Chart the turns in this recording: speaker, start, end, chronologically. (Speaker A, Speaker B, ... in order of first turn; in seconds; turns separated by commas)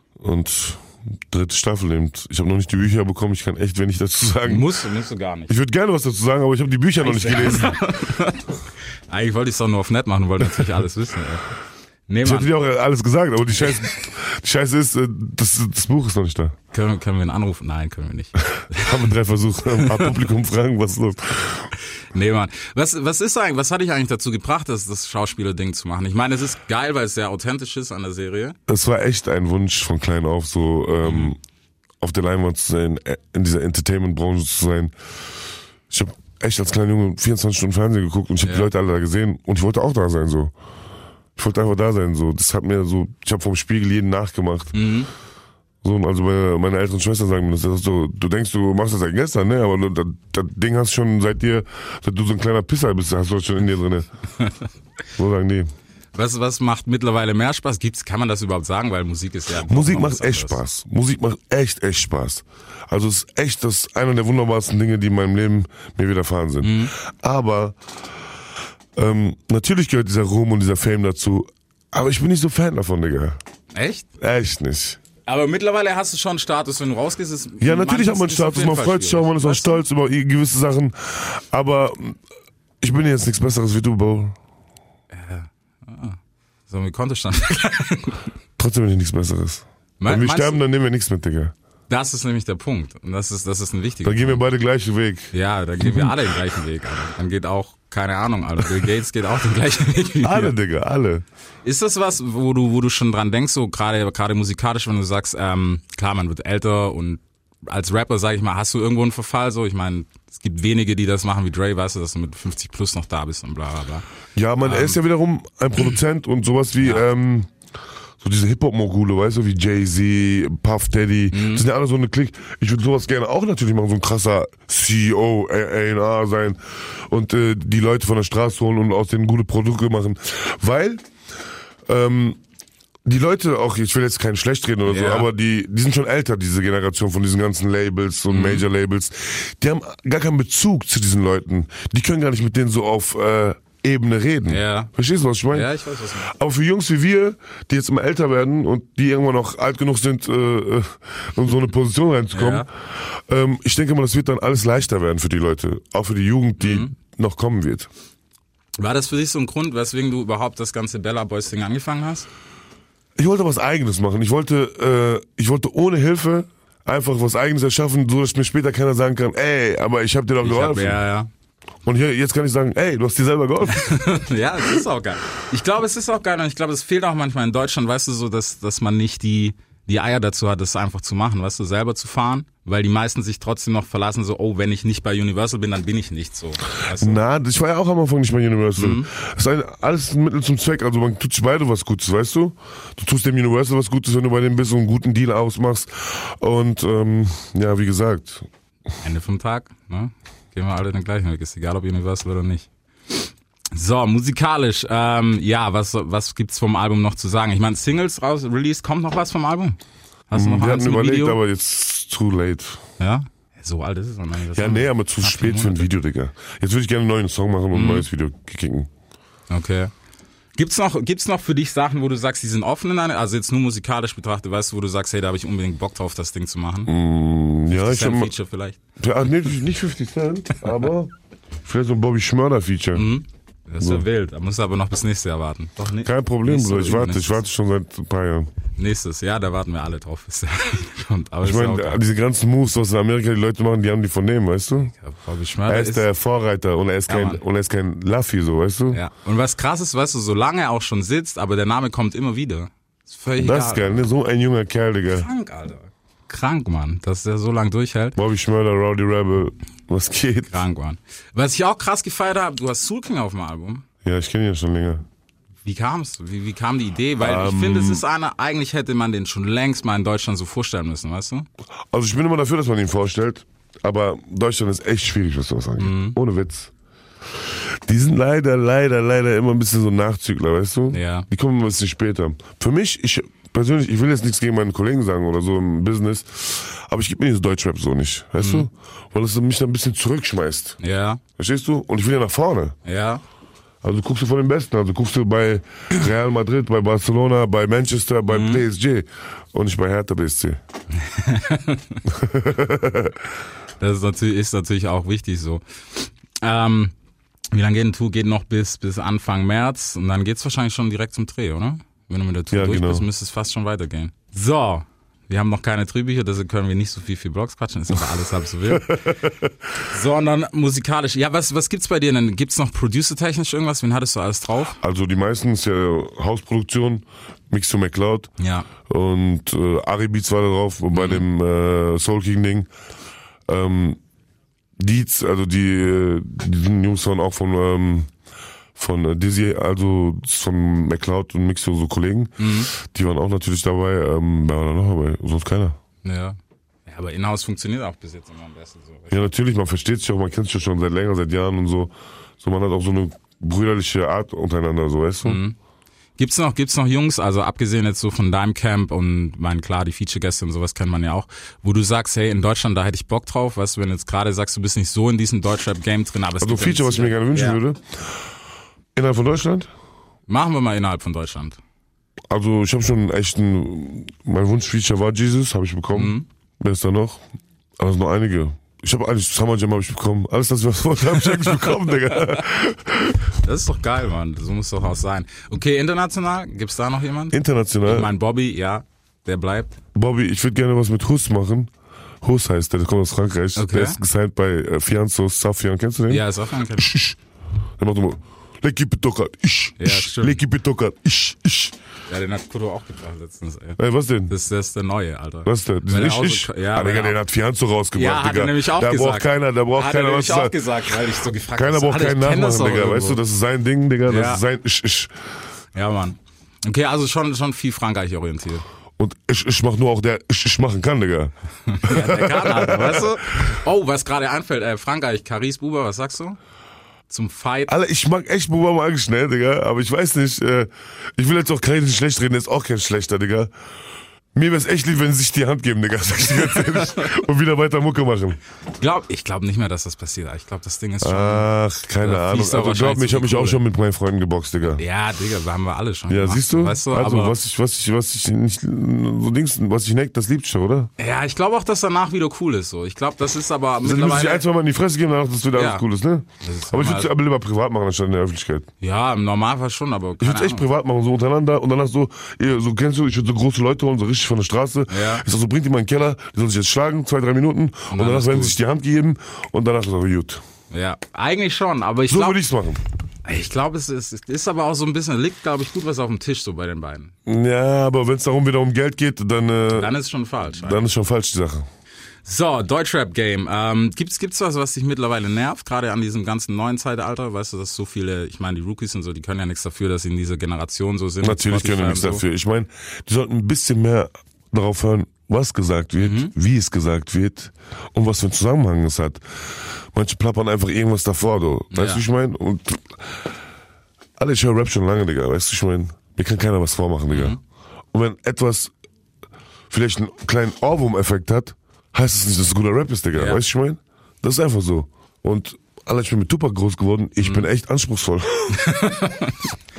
Speaker A: 0.2-4.7, Speaker B: 4.5-5.6, Speaker A: 5.5-7.8, Speaker B: 7.0-8.6, Speaker B: 9.1-11.5, Speaker B: 12.1-12.5, Speaker A: 12.2-16.6, Speaker B: 16.7-19.0, Speaker A: 18.6-21.7, Speaker B: 19.8-20.1, Speaker B: 22.1-28.6, Speaker A: 28.7-31.4, Speaker B: 31.0-31.3, Speaker A: 32.0-34.9, Speaker A: 35.9-40.5, Speaker B: 38.4-38.7, Speaker A: 41.4-44.9, Speaker B: 44.7-45.1, Speaker A: 45.8-54.1, Speaker A: 55.2-55.7, Speaker B: 56.1-60.6, Speaker A: 59.6-67.8, Speaker B: 66.6-66.9, Speaker A: 69.0-73.4, Speaker B: 73.7-74.1, Speaker A: 74.2-75.0, Speaker B: 75.2-79.8, Speaker A: 77.6-82.2, Speaker A: 82.8-84.3, Speaker B: 85.1-88.2, Speaker A: 88.6-91.5, Speaker B: 90.0-90.6, Speaker B: 91.9-94.4, Speaker A: 94.0-96.2, Speaker B: 95.3-100.5, Speaker A: 100.2-101.2, Speaker B: 101.6-114.1, Speaker A: 114.4-117.5, Speaker B: 114.6-115.0, Speaker A: 118.2-131.0, Speaker B: 121.3-121.6, Speaker A: 131.9-132.4, Speaker A: 133.1-145.7, Speaker B: 134.8-135.3, Speaker B: 138.3-138.7, Speaker B: 144.4-144.9, Speaker B: 145.5-146.3, Speaker A: 146.2-157.9, Speaker B: 152.3-152.7, Speaker B: 156.6-156.9, Speaker B: 158.8-162.3, Speaker A: 163.2-171.0, Speaker B: 170.4-171.3, Speaker A: 171.8-174.1, Speaker B: 173.7-187.2, Speaker A: 186.9-198.5, Speaker B: 188.8-189.1, Speaker B: 199.0-209.8, Speaker B: 210.3-211.4, Speaker A: 210.3-212.8, Speaker B: 213.0-215.9, Speaker A: 214.5-218.9, Speaker B: 217.7-218.1, Speaker B: 219.5-219.9, Speaker B: 220.6-226.9, Speaker A: 226.9-228.3, Speaker B: 227.7-228.8, Speaker A: 229.0-231.1, Speaker A: 231.6-233.1, Speaker B: 232.9-237.4, Speaker A: 233.8-234.1, Speaker A: 236.0-238.5, Speaker B: 238.8-242.0, Speaker A: 241.4-244.9, Speaker B: 244.9-246.1, Speaker A: 245.7-249.0, Speaker B: 247.1-247.4, Speaker B: 248.9-254.1, Speaker A: 253.4-255.3, Speaker B: 255.1-258.2, Speaker A: 258.1-260.6, Speaker B: 260.5-263.9, Speaker A: 264.0-265.0, Speaker B: 265.6-271.5, Speaker A: 267.2-268.0, Speaker A: 271.9-276.7, Speaker B: 275.8-276.2, Speaker A: 277.9-290.8, Speaker B: 280.9-281.3, Speaker B: 288.4-288.7, Speaker B: 290.8-291.2, Speaker A: 291.4-292.8, Speaker B: 292.9-293.2, Speaker A: 293.8-300.6, Speaker B: 298.3-298.6, Speaker B: 300.9-302.0, Speaker A: 302.1-303.2, Speaker B: 303.8-306.9, Speaker B: 307.5-319.2, Speaker A: 312.5-313.1, Speaker A: 318.1-319.5, Speaker B: 319.8-324.8, Speaker A: 324.8-328.3, Speaker B: 328.4-328.7, Speaker A: 328.9-332.7, Speaker B: 330.9-331.2, Speaker A: 333.5-334.0, Speaker A: 334.8-338.1, Speaker A: 338.8-345.8, Speaker B: 342.4-342.7, Speaker B: 346.0-349.2, Speaker A: 349.1-355.4, Speaker B: 355.2-355.6, Speaker B: 356.2-367.6, Speaker A: 366.4-368.0, Speaker A: 368.9-369.7, Speaker B: 370.3-371.6, Speaker A: 372.3-377.2, Speaker B: 375.9-376.2, Speaker A: 377.8-383.3, Speaker B: 381.3-382.4, Speaker B: 383.3-389.8, Speaker A: 387.3-388.1, Speaker A: 389.9-391.7, Speaker A: 392.2-397.2, Speaker B: 393.5-394.0, Speaker B: 396.1-396.9, Speaker A: 397.8-401.8, Speaker B: 399.8-400.4, Speaker B: 402.1-407.2, Speaker A: 403.8-404.3, Speaker A: 405.4-410.6, Speaker B: 407.9-413.2, Speaker A: 411.5-415.1, Speaker B: 414.0-414.4, Speaker B: 415.8-418.6, Speaker A: 419.0-423.5, Speaker B: 421.7-426.4, Speaker B: 427.1-427.7, Speaker A: 427.7-433.5, Speaker A: 434.4-438.4, Speaker B: 436.6-437.1, Speaker B: 438.8-441.5, Speaker A: 441.0-444.8, Speaker B: 442.0-443.6, Speaker B: 444.8-447.4, Speaker A: 446.1-450.9, Speaker B: 451.0-454.4, Speaker A: 453.8-458.7, Speaker B: 455.5-455.8, Speaker B: 456.4-457.1, Speaker B: 458.8-460.7, Speaker A: 460.2-470.4, Speaker B: 464.9-465.2, Speaker B: 467.9-468.6, Speaker B: 470.7-472.4, Speaker A: 472.1-472.8, Speaker B: 473.2-477.1, Speaker A: 477.2-479.9, Speaker B: 479.7-480.8, Speaker A: 480.5-481.7, Speaker B: 482.2-492.2, Speaker A: 491.2-503.2, Speaker B: 496.0-496.3, Speaker B: 501.7-502.0, Speaker A: 504.2-507.4, Speaker B: 507.1-507.4, Speaker A: 507.9-508.7, Speaker A: 509.7-518.6, Speaker B: 513.1-513.4, Speaker B: 517.2-517.5, Speaker B: 518.5-519.5